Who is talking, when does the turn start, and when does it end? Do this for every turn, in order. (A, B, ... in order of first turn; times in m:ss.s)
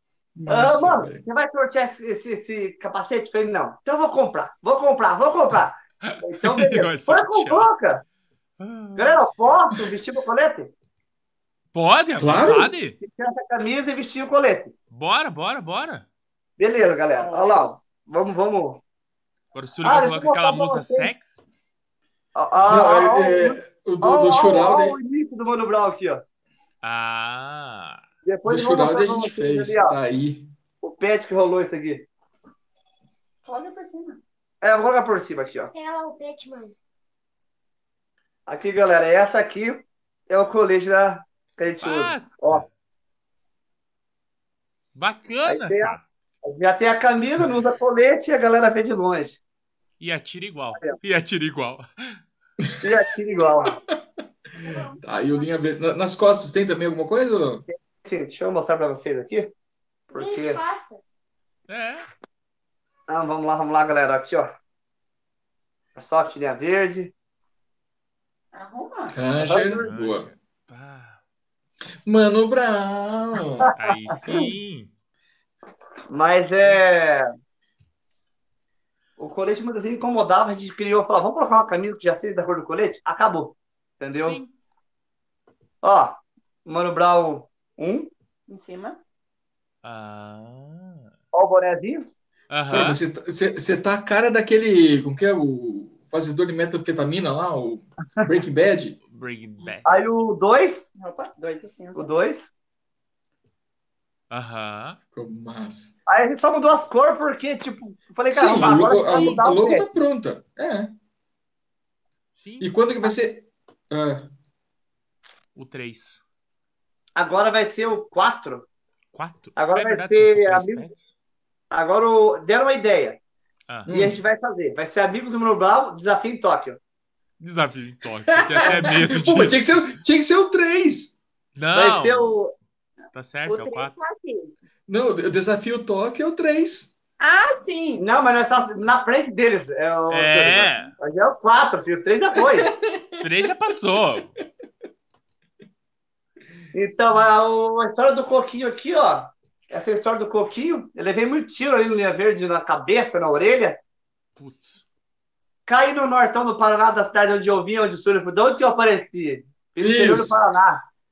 0:00.4-0:01.2 A
0:00.5-0:08.0 B
0:06.0-0:07.7 C
0:08.6-0:09.3 C
0:09.0-0:10.7 B
0:11.7-0:13.0 C
0:12.2-0:12.7 A
0:13.0-0:14.7 B
0:14.9-0:16.1 C
0:16.6-0:18.8 B
0:17.1-0:17.7 D
0:19.5-0:21.4 C
0:19.8-0:21.1 B
0:22.4-0:26.2 B
0:22.7-0:25.0 A
0:26.8-0:28.0 C
0:28.2-0:30.0 B
0:28.5-0:30.5 A
0:30.8-0:32.1 B
0:33.4-0:34.2 D
0:34.6-0:35.7 B
0:35.7-0:36.7 D
0:38.5-0:42.6 B
0:41.8-0:42.7 C
0:45.0-0:46.0 C
0:45.4-0:49.4 B
0:50.0-0:52.2 C
0:52.8-0:53.8 B
0:53.7-0:54.0 A
0:54.6-0:55.4 D
0:54.7-0:57.6 A
0:57.7-0:59.5 B
1:00.1-1:00.6 B
1:00.2-1:01.0 D
1:01.7-1:02.0 C
1:03.1-1:04.5 B
1:06.0-1:07.1 B
1:08.5-1:09.2 D
1:09.1-1:10.3 A
1:09.4-1:09.9 B
1:09.8-1:11.2 C
1:12.0-1:13.7 A
1:13.8-1:14.9 C
1:16.1-1:17.3 B
1:19.2-1:24.4 B
1:24.1-1:24.5 C
1:25.8-1:28.1 B
1:28.5-1:29.0 D
1:29.8-1:31.1 C
1:31.3-1:32.1 B
1:32.5-1:33.0 C
1:32.7-1:39.0 A
1:39.1-1:40.0 C
1:39.8-1:40.9 B
1:41.0-1:42.1 D
1:42.0-1:42.5 B
1:44.3-1:45.0 C
1:45.1-1:46.0 A
1:46.1-1:49.9 B
1:48.3-1:50.9 A
1:48.6-1:49.4 C
1:52.3-1:52.8 C
1:52.6-1:54.3 A
1:55.6-1:56.2 C
1:57.2-1:58.7 B
1:59.1-2:01.1 C
1:59.6-2:00.9 B
2:01.7-2:03.2 B
2:03.9-2:04.2 A
2:03.9-2:06.8 B
2:07.4-2:09.8 C
2:08.5-2:11.2 A
2:11.6-2:12.4 C
2:11.7-2:12.5 B
2:13.1-2:14.0 C
2:13.5-2:14.5 D
2:14.9-2:16.9 A
2:17.2-2:18.0 D
2:18.0-2:22.7 B
2:20.1-2:20.9 C
2:22.4-2:23.4 A
2:23.2-2:24.3 C
2:26.7-2:33.8 B
2:34.4-2:34.8 C
2:35.7-2:40.8 B
2:39.8-2:40.4 A